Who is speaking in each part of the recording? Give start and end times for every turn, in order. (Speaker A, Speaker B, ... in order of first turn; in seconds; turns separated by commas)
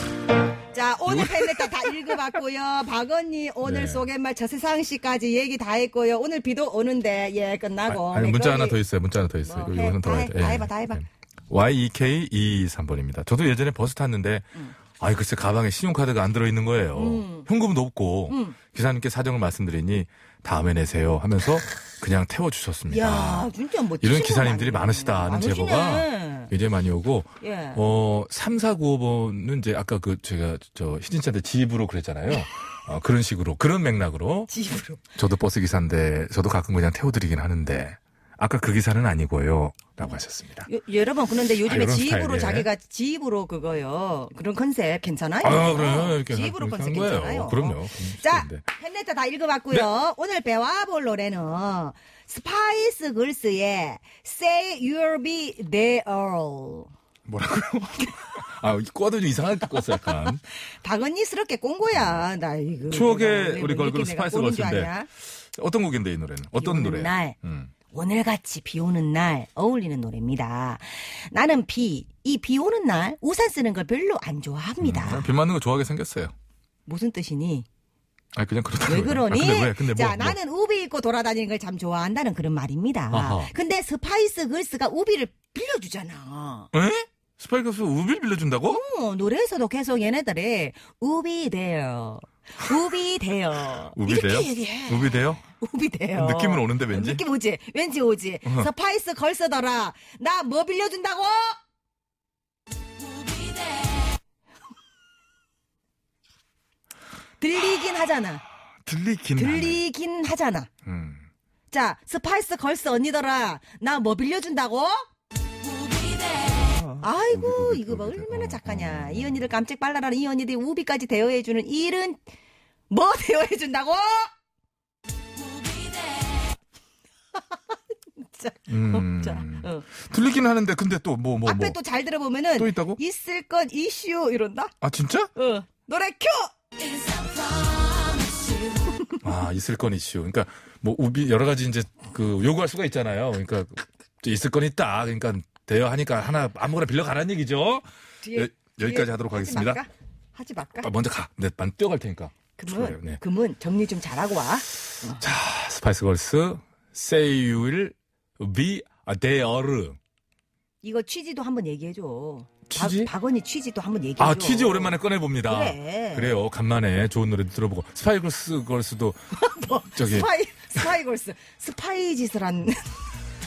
Speaker A: 0.7-8.8, Speaker B: 1.1-1.8, Speaker B: 3.6-4.0, Speaker B: 7.9-23.5, Speaker A: 9.4-11.1, Speaker A: 16.9-17.5, Speaker A: 18.3-18.6, Speaker A: 22.9-26.5, Speaker B: 24.0-34.5, Speaker A: 27.4-27.8, Speaker A: 34.5-35.0, Speaker B: 35.2-40.7, Speaker A: 40.7-56.9, Speaker B: 41.6-42.7, Speaker B: 45.4-48.6, Speaker B: 57.3-60.4, Speaker A: 60.8-65.1, Speaker B: 62.9-67.7, Speaker A: 66.6-67.4, Speaker A: 67.9-75.3, Speaker B: 74.8-76.3, Speaker A: 76.9-77.7, Speaker B: 78.3-80.4, Speaker A: 78.8-86.7, Speaker B: 83.1-83.5, Speaker B: 86.7-88.8, Speaker A: 88.7-101.6, Speaker B: 93.9-95.4, Speaker B: 96.1-97.2, Speaker A: 107.4-108.4, Speaker B: 108.8-109.8, Speaker A: 109.4-110.7, Speaker B: 110.8-111.2, Speaker A: 111.7-115.1, Speaker B: 116.6-119.4, Speaker A: 117.0-122.2, Speaker A: 122.9-124.3, Speaker A: 128.2-129.8, Speaker B: 128.7-131.8, Speaker A: 131.4-134.7, Speaker B: 132.6-133.0, Speaker B: 134.8-135.3, Speaker A: 135.3-136.5, Speaker B: 139.2-149.8, Speaker A: 148.2-150.9, Speaker B: 150.8-153.2, Speaker A: 152.6-155.2, Speaker B: 155.2-160.0, Speaker A: 160.8-166.3, Speaker B: 162.7-163.1, Speaker B: 164.2-169.2, Speaker A: 169.4-172.8, Speaker B: 169.9-170.3